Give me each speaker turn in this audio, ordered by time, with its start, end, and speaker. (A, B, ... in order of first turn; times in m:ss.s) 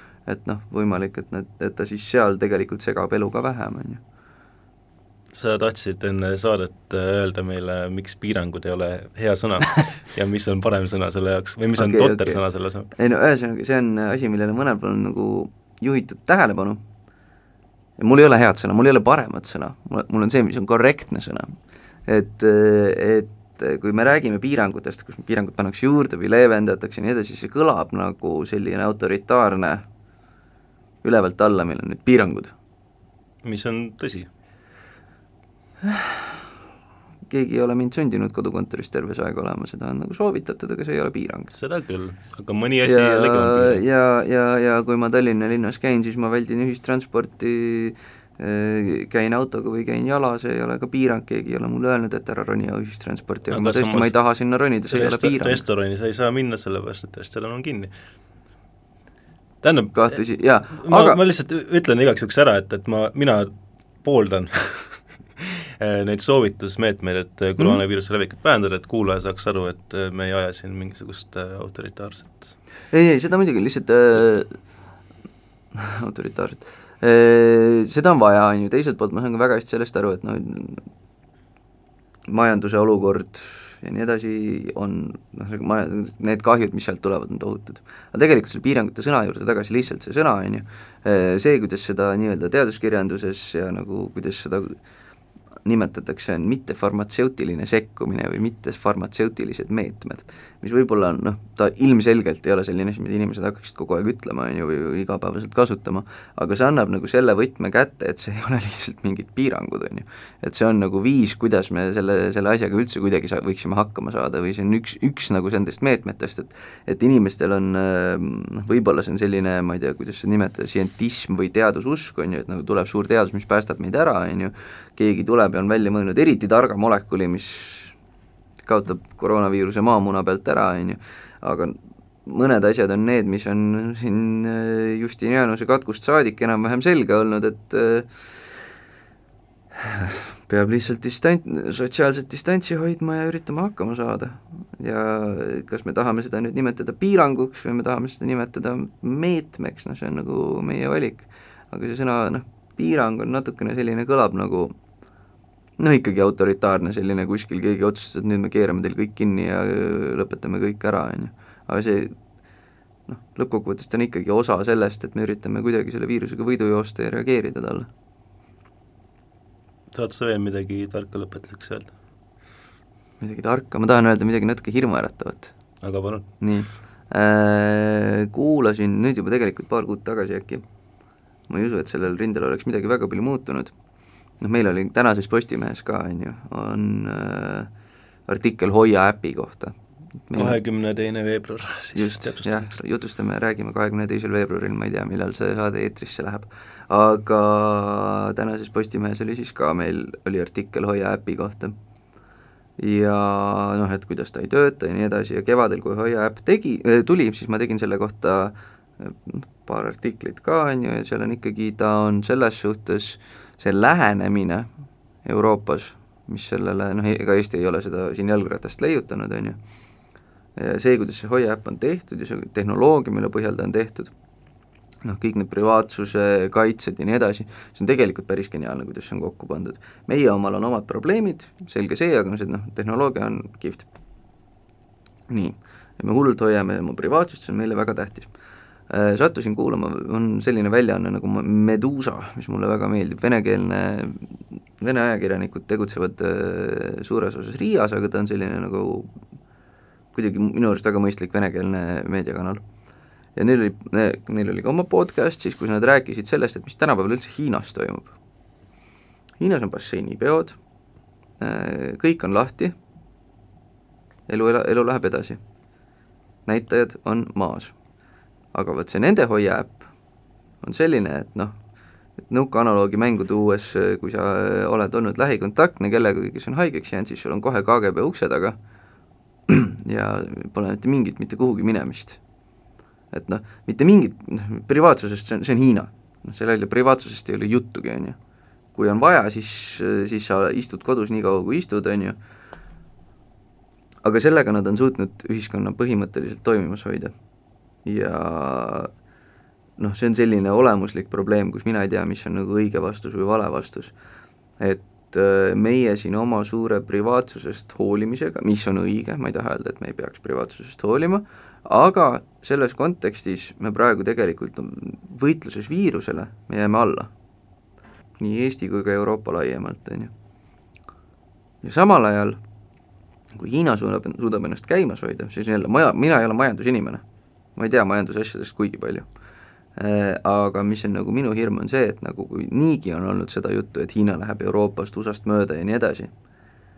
0:00.3-0:04.0 A
0:05.3-0:12.9 B
0:11.8-0:16.8 A
0:18.0-0:21.6 A
0:22.1-0:29.8 A
0:31.0-0:32.5 A
0:33.4-0:34.3 B
0:35.8-0:36.4 A
0:37.3-0:41.5 A
0:41.5-0:43.8 B
0:42.8-0:55.6 A
0:53.5-0:54.1 B
0:54.9-0:57.9 B
0:59.6-1:00.2 B
0:59.9-1:01.2 A
1:00.8-1:12.6 B
1:12.9-1:14.6 A
1:15.7-1:20.8 A
1:22.3-1:34.8 A
1:35.6-2:08.0 A
2:08.6-2:18.6 A
2:19.8-2:34.8 A
2:35.8-2:42.1 A
2:43.1-2:47.9 A
2:49.9-2:51.9 B
2:53.2-2:55.5 A
2:55.8-2:56.3 B
2:56.4-3:00.6 A
3:01.5-3:03.7 A
3:04.4-3:07.7 A
3:08.3-3:09.8 A
3:10.3-3:10.6 A
3:10.3-3:12.8 B
3:12.0-3:21.7 A
3:22.8-3:34.7 A
3:35.2-3:39.6 A
3:40.6-3:44.1 A
3:45.0-3:53.9 A
3:55.3-3:58.3 A
3:58.9-4:09.2 A
4:10.1-4:12.6 A
4:13.4-4:18.2 A
4:19.4-4:20.6 A
4:21.4-4:22.8 A
4:24.3-4:25.4 A
4:26.5-4:27.8 A
4:28.5-4:29.9 A
4:30.6-4:31.6 A
4:32.3-4:38.6 A
4:39.5-4:42.2 A
4:43.1-4:48.2 A
4:48.8-4:52.2 A
4:54.0-4:57.1 A
4:57.8-4:58.9 A
4:59.8-5:03.9 A
5:04.6-5:17.1 A
5:18.2-5:20.1 A
5:21.6-5:22.4 A
5:23.4-5:27.0 A
5:27.6-5:29.1 A
5:29.8-5:36.1 A